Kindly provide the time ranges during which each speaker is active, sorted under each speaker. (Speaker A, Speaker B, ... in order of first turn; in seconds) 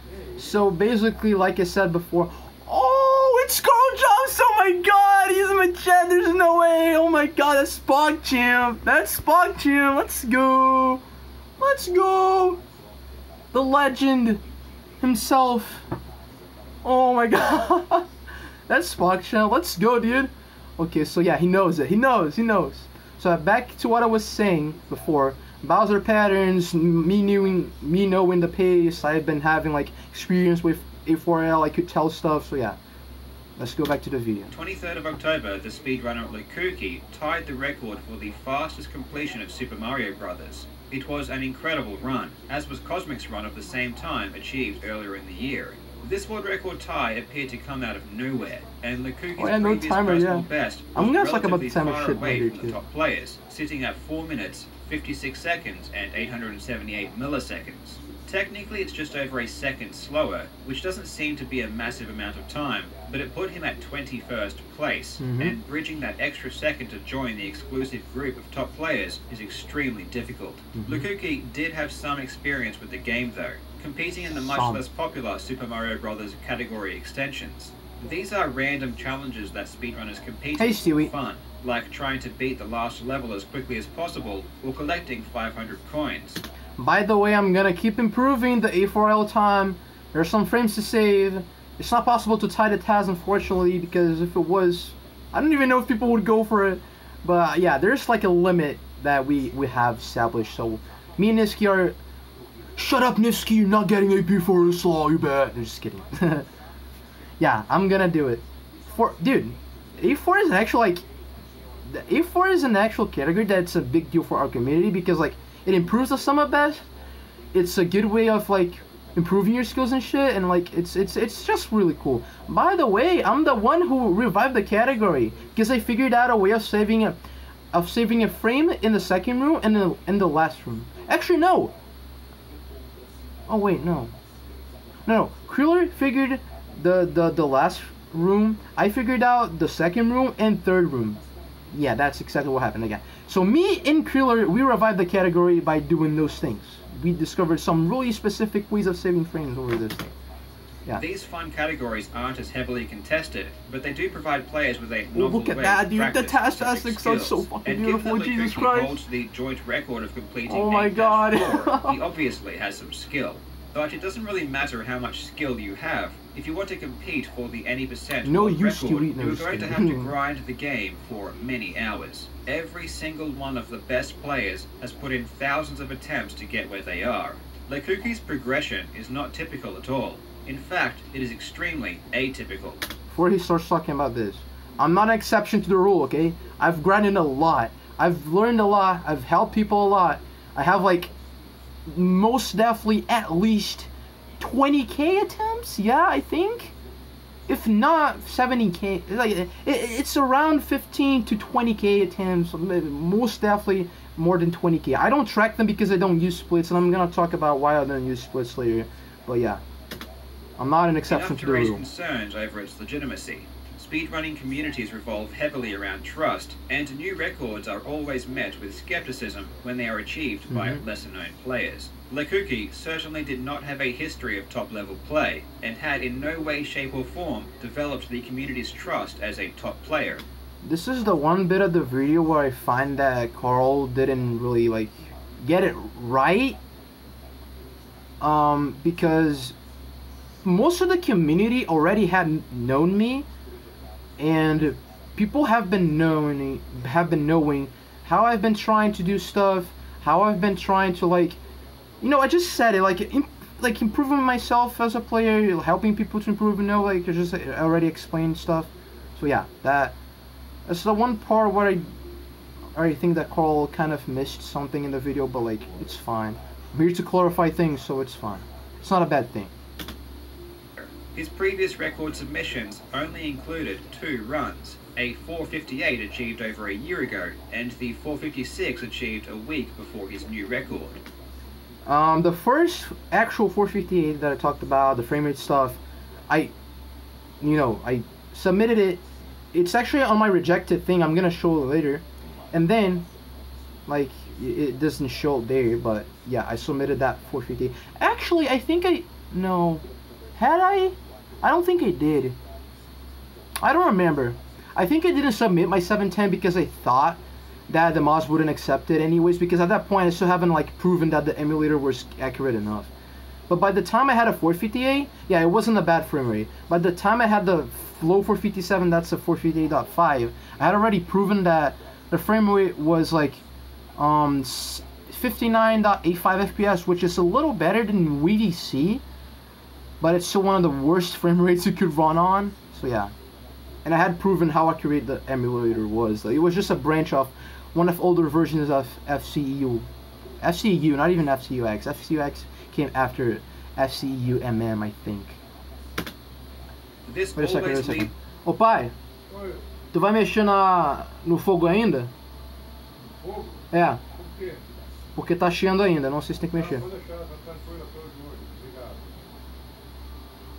Speaker A: 0.4-11.0, 11.6-12.6, 13.5-14.4, 15.0-15.8, 16.8-18.1, 18.7-32.8, 33.6-34.5, 49.4-52.8, 65.2-65.6, 70.7-71.0, 74.5-74.8, 80.6-81.1, 86.8-102.0, 102.8-106.5, 107.4-111.1, 111.9-116.9, 117.5-127.2, 127.7-131.8, 133.5-134.1, 135.1-150.1, 155.1-159.0, 160.5-162.0, 168.2-170.1, 183.1-191.1, 191.9-196.7, 197.5-209.6, 210.6-211.8, 220.5-220.8, 230.6-236.6, 238.2-239.6, 240.4-243.3, 244.2-251.4, 252.0-260.0, 260.7-261.9, 262.8-269.5, 281.9-286.5, 287.4-293.1, 293.9-299.9, 300.4-302.4, 303.6-312.9, 313.5-323.4, 324.0-329.0, 330.0-333.1, 333.9-339.9, 340.4-345.4, 347.4-348.9, 349.9-352.1, 353.7-354.0, 355.2-356.9
Speaker B: 34.5-86.4, 151.0-182.9, 211.1-230.2, 270.8-281.0, 347.1-348.1
Speaker C: 349.3-349.6, 353.2-353.6, 354.2-354.6, 356.6-359.1